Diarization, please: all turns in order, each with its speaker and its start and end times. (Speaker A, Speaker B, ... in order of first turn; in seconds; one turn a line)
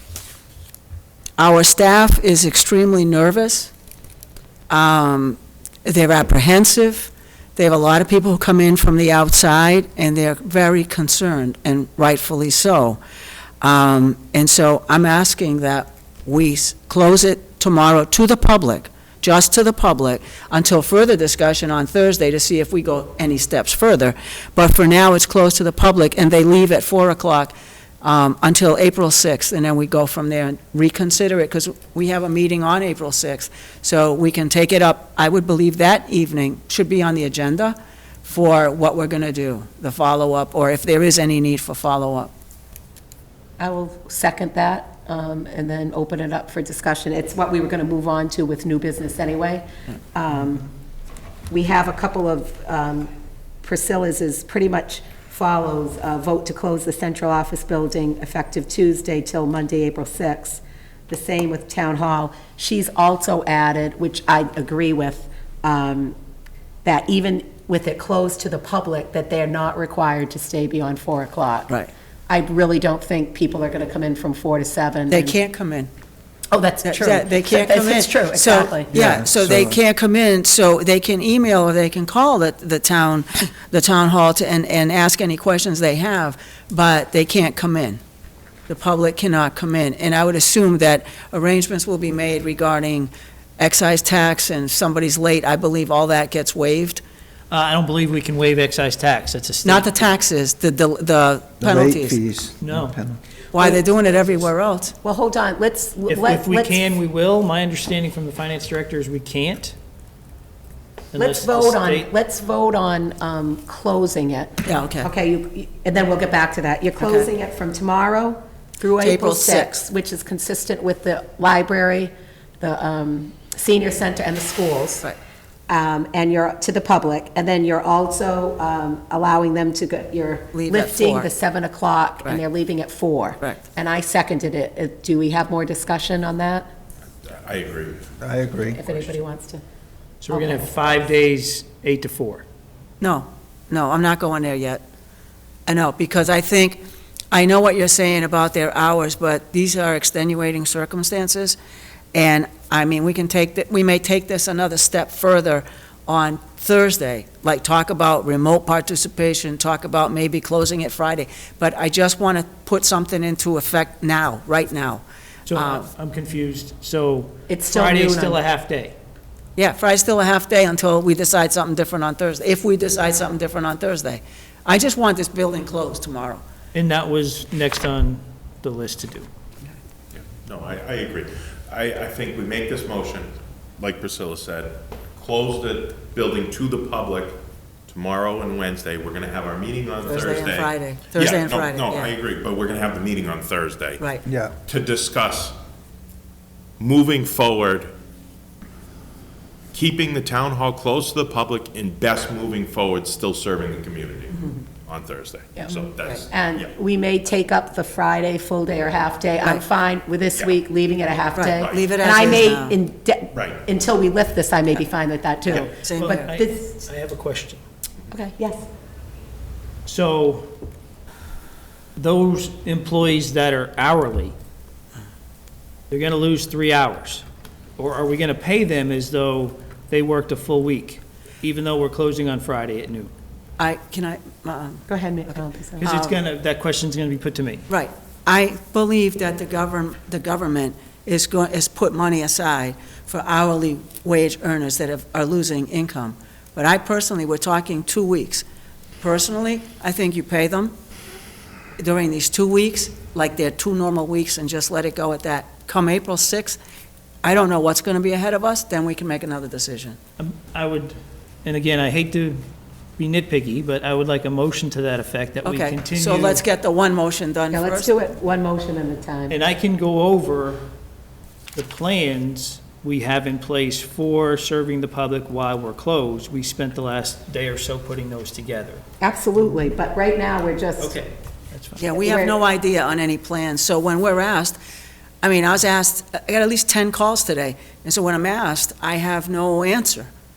Speaker A: 1.4-3.7
Speaker A: 4.7-13.0
Speaker A: 13.6-42.3
Speaker B: 43.6-50.7
Speaker B: 51.5-53.1
Speaker B: 53.6-66.1
Speaker B: 66.8-71.7
Speaker B: 72.3-75.4
Speaker A: 75.1-75.9
Speaker B: 76.5-79.0
Speaker A: 76.8-88.0
Speaker C: 78.9-79.8
Speaker A: 88.7-97.0
Speaker D: 97.5-99.9
Speaker A: 99.6-102.2
Speaker C: 101.6-103.2
Speaker D: 102.6-103.0
Speaker A: 103.5-105.0
Speaker B: 105.0-106.8
Speaker D: 106.1-109.7
Speaker D: 111.1-112.1
Speaker B: 111.1-125.0
Speaker A: 114.6-115.1
Speaker A: 117.0-117.3
Speaker A: 119.0-119.7
Speaker B: 125.7-136.7
Speaker A: 130.5-131.3
Speaker E: 137.2-138.1
Speaker C: 138.2-138.8
Speaker B: 138.7-139.6
Speaker D: 140.2-142.4
Speaker A: 143.0-144.8
Speaker A: 145.7-151.6
Speaker A: 152.1-165.0
Speaker D: 165.5-168.9
Speaker A: 165.5-165.9
Speaker B: 167.5-168.4
Speaker A: 169.6-176.4
Speaker D: 176.7-179.3
Speaker E: 180.1-194.0
Speaker A: 190.0-192.1
Speaker C: 194.2-194.5
Speaker E: 194.6-195.6
Speaker E: 196.8-197.9
Speaker E: 199.7-206.7
Speaker B: 205.6-216.8
Speaker A: 211.3-212.8
Speaker E: 211.6-211.9
Speaker E: 213.3-213.6
Speaker A: 215.5-216.3
Speaker D: 215.5-217.6
Speaker B: 218.1-218.6
Speaker D: 219.8-220.5
Speaker D: 222.0-224.3
Speaker D: 225.9-227.2
Speaker D: 227.8-233.1
Speaker A: 233.6-234.8
Speaker B: 234.9-235.9
Speaker D: 235.8-237.6
Speaker A: 235.8-236.2
Speaker A: 237.7-248.4
Speaker A: 249.0-250.7
Speaker A: 251.8-256.6
Speaker A: 257.2-260.0
Speaker D: 260.2-262.4
Speaker D: 263.0-266.4
Speaker A: 265.4-267.9
Speaker B: 267.5-269.4
Speaker D: 269.3-270.6
Speaker D: 271.5-278.8
Speaker B: 279.0-281.0
Speaker D: 280.8-281.8
Speaker A: 281.8-284.6
Speaker B: 281.9-282.4
Speaker A: 285.2-290.1